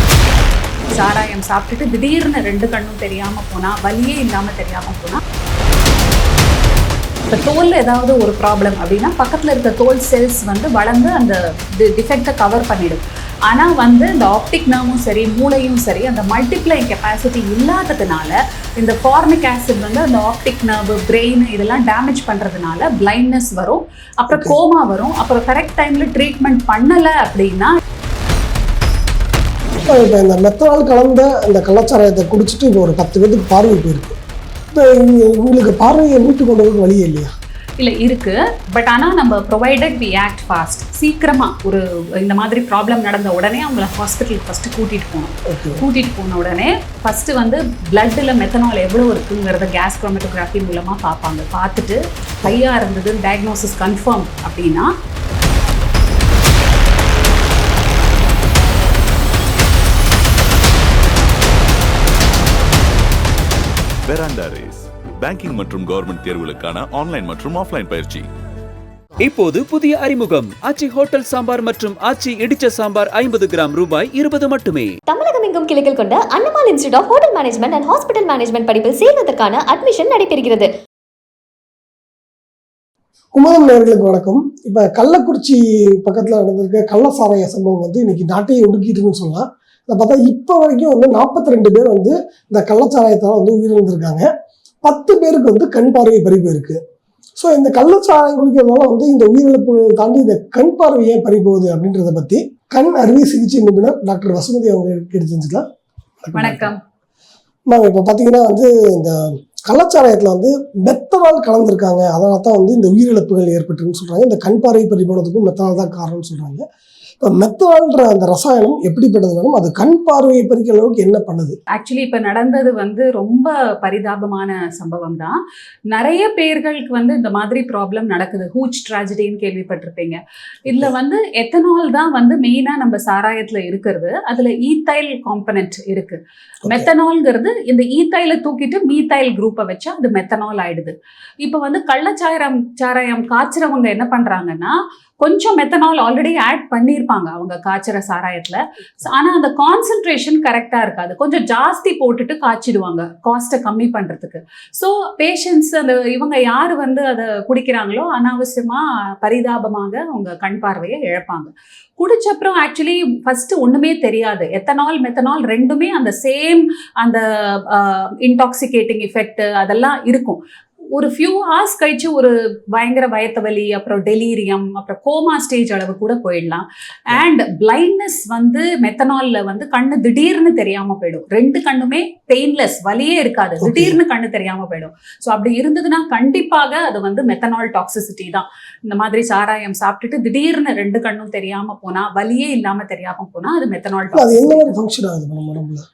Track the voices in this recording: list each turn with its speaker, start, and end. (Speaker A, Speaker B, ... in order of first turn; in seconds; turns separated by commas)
Speaker A: 0.9-5.2, Speaker A: 7.3-27.8, Speaker B: 24.3-24.6, Speaker B: 29.9-34.1, Speaker B: 34.7-37.3, Speaker A: 37.8-54.9, Speaker B: 45.5-45.8, Speaker C: 64.0-68.3, Speaker D: 69.2-75.0, Speaker E: 75.1-80.7, Speaker B: 83.3-94.3, Speaker B: 94.8-96.8, Speaker B: 97.4-105.7, Speaker B: 106.2-106.7, Speaker A: 106.4-106.8, Speaker B: 107.7-116.6, Speaker B: 117.2-121.6, Speaker A: 121.7-125.4, Speaker A: 125.9-170.4, Speaker A: 170.9-194.7, Speaker B: 183.6-184.0, Speaker B: 194.1-195.8